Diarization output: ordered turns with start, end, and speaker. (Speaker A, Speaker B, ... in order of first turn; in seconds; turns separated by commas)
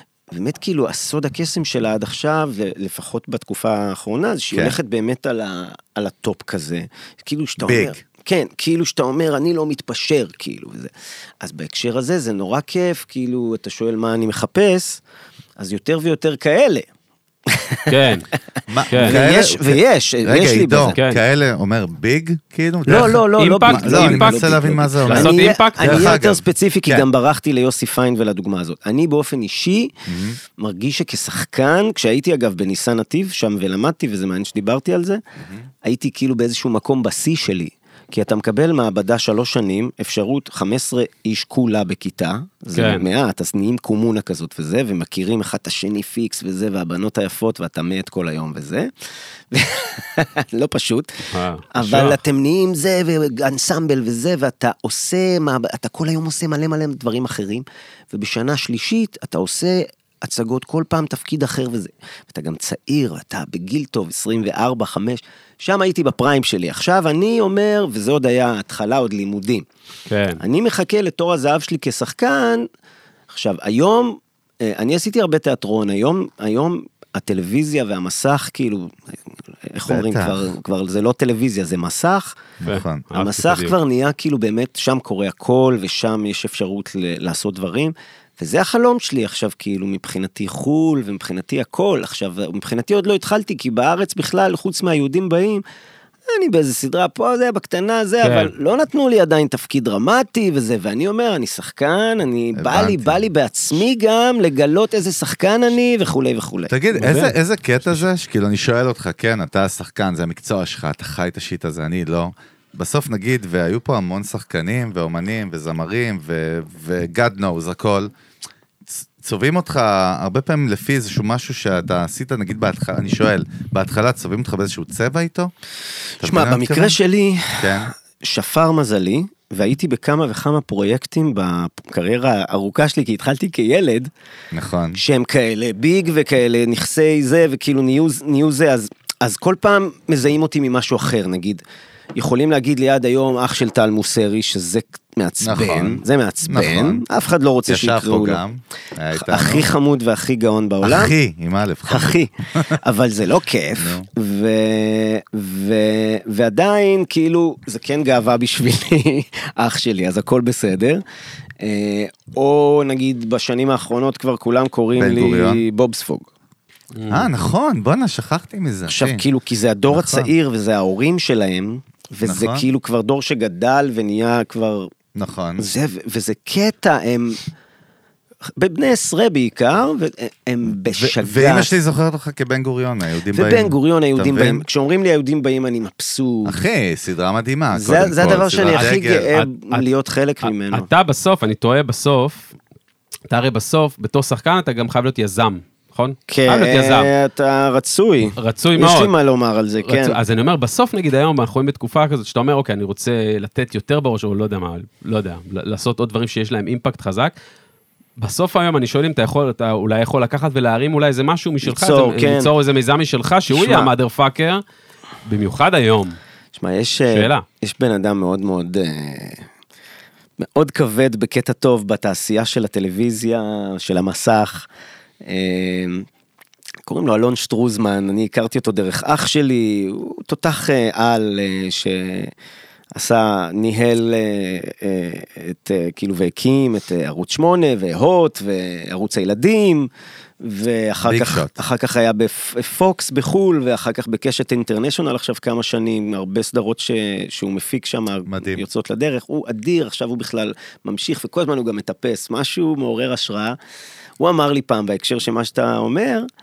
Speaker A: 0.3-15.0, Speaker B: 7.6-8.0, Speaker A: 15.6-16.9, Speaker A: 17.5-17.9, Speaker C: 17.9-18.3, Speaker B: 18.7-27.1, Speaker C: 18.9-19.2, Speaker A: 18.9-21.0, Speaker C: 20.9-21.2, Speaker A: 22.9-30.0, Speaker C: 22.9-26.2, Speaker B: 30.1-30.4, Speaker A: 30.6-35.2, Speaker A: 35.8-48.9, Speaker C: 42.8-43.1, Speaker A: 49.5-69.7, Speaker C: 51.3-52.2, Speaker C: 70.1-70.4, Speaker A: 70.4-72.7, Speaker A: 73.3-79.0, Speaker A: 79.7-82.4, Speaker B: 79.9-80.5, Speaker B: 82.6-83.1, Speaker C: 82.7-83.7, Speaker A: 83.2-95.6, Speaker A: 96.3-106.7, Speaker C: 98.2-98.5, Speaker B: 102.6-103.2, Speaker B: 106.7-118.1, Speaker C: 107.0-107.3, Speaker B: 118.9-125.5, Speaker A: 126.2-134.1, Speaker B: 126.2-127.0, Speaker B: 127.6-127.9, Speaker B: 134.5-135.0, Speaker A: 135.0-141.6, Speaker A: 142.2-148.4, Speaker B: 145.4-147.0, Speaker B: 147.7-149.7, Speaker A: 149.1-151.1, Speaker B: 150.8-152.8, Speaker A: 151.9-161.0, Speaker B: 153.8-154.1, Speaker A: 161.6-166.3, Speaker B: 165.0-165.7, Speaker C: 166.9-167.3, Speaker B: 167.1-169.2, Speaker A: 168.9-174.9, Speaker B: 169.9-170.3, Speaker B: 172.2-172.7, Speaker B: 175.2-175.7, Speaker A: 175.6-177.4, Speaker A: 178.6-181.7, Speaker B: 180.9-184.7, Speaker A: 183.3-186.6, Speaker B: 186.4-189.3, Speaker A: 187.7-190.9, Speaker C: 188.7-189.9, Speaker C: 190.4-192.5, Speaker C: 193.3-197.1, Speaker A: 196.3-200.2, Speaker C: 198.4-199.1, Speaker C: 199.8-207.3, Speaker C: 208.2-214.6, Speaker A: 211.6-212.5, Speaker A: 213.5-213.9, Speaker C: 215.2-216.2, Speaker A: 216.5-219.4, Speaker C: 217.1-217.4, Speaker A: 220.4-224.7, Speaker A: 225.2-226.1, Speaker A: 226.9-232.3, Speaker A: 232.9-239.9, Speaker A: 240.4-253.6, Speaker B: 241.0-241.6, Speaker B: 248.3-248.6, Speaker A: 254.2-256.3